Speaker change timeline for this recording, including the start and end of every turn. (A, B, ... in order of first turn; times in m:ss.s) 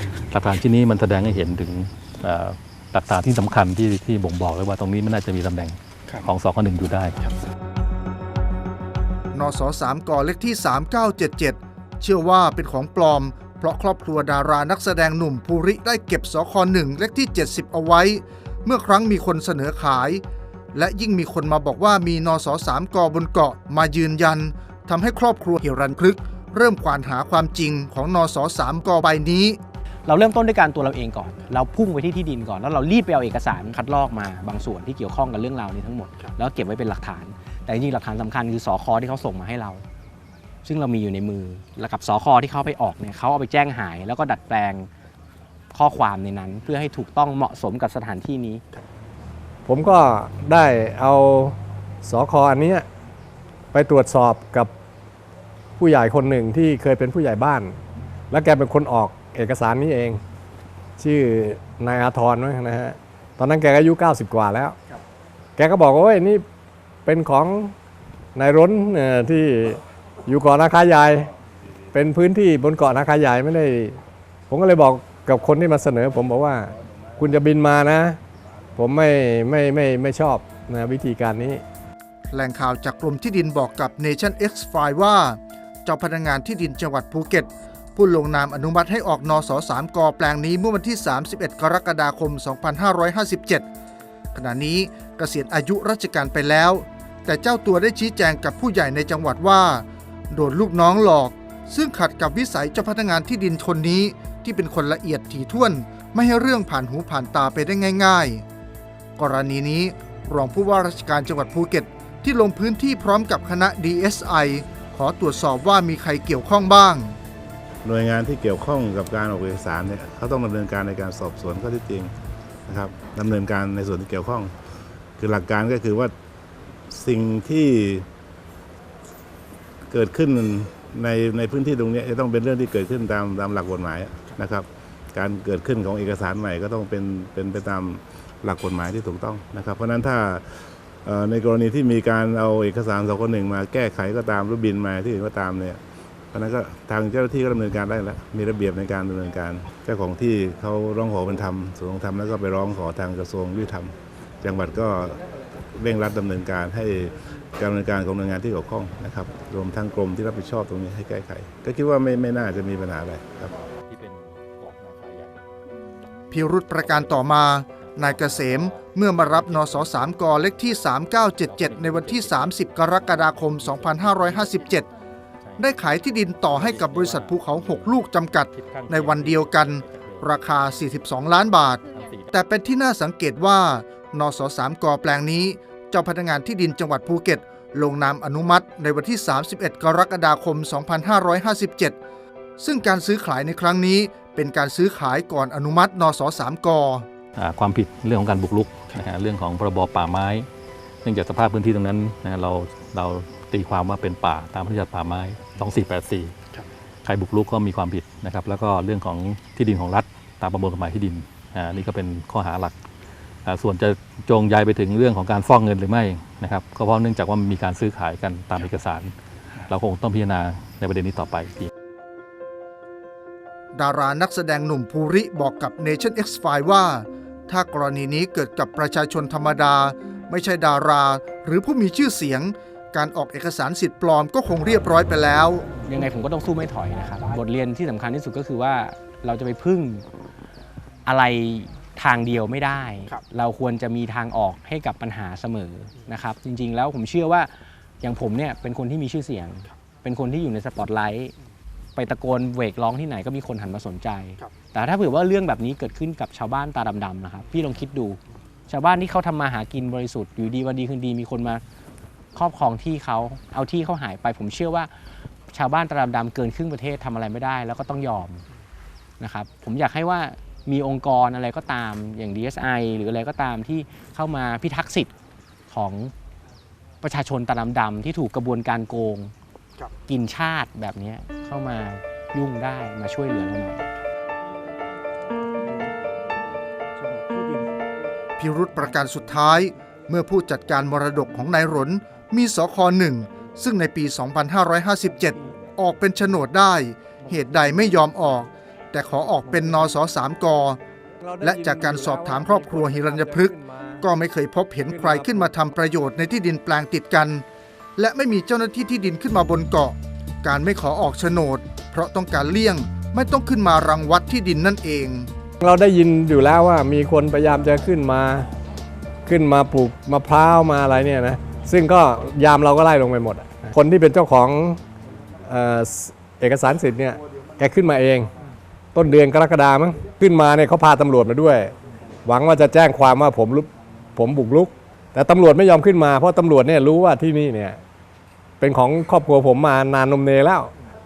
0:00.3-0:07.2 A
0:09.3-0:29.6 B
0:30.0-0:39.8 C
0:40.6-0:44.9 C
0:45.7-0:48.6 C
0:49.6-0:52.9 D
0:53.7-0:54.7 D
0:55.8-0:57.8 D
0:58.3-1:00.2 D
1:01.0-1:04.8 D
1:05.6-1:06.4 D
1:07.0-1:07.7 D
1:08.3-1:11.3 D
1:11.9-1:18.2 D
1:18.8-1:21.6 D
1:22.3-1:33.7 B
1:34.3-1:48.4 B
1:49.2-1:57.2 B
1:57.8-2:02.1 E
2:02.7-2:04.6 E
2:05.2-2:06.1 E
2:06.9-2:08.1 E
2:09.9-2:25.8 E
2:26.3-2:35.2 E
2:35.8-2:43.5 E
2:43.9-2:45.3 A
2:46.3-2:54.9 B
2:55.6-3:12.0 B
2:58.6-2:59.2 A
2:59.8-3:00.2 A
3:12.6-3:17.1 B
3:17.4-3:20.5 A
3:21.0-3:26.3 A
3:27.0-3:32.7 A
3:33.4-3:39.1 A
3:39.7-3:41.7 A
3:43.7-3:55.6 B
3:55.8-4:00.0 C
4:01.0-4:07.5 C
4:08.0-4:11.3 C
4:12.0-4:21.6 C
4:22.3-4:24.9 C
4:25.5-4:28.4 C
4:29.2-4:35.1 C
4:35.7-4:36.1 C
4:37.0-4:39.3 C
4:40.1-4:43.8 C
4:45.6-4:45.9 B
4:46.9-4:47.7 B
4:48.4-5:00.8 B
5:01.2-5:04.0 D
5:01.4-5:07.4 B
5:04.8-5:05.5 D
5:08.0-5:15.3 B
5:15.6-5:18.5 D
5:19.2-5:24.8 D
5:25.4-5:28.3 D
5:28.9-5:31.7 D
5:32.2-5:37.8 D
5:38.6-5:40.7 D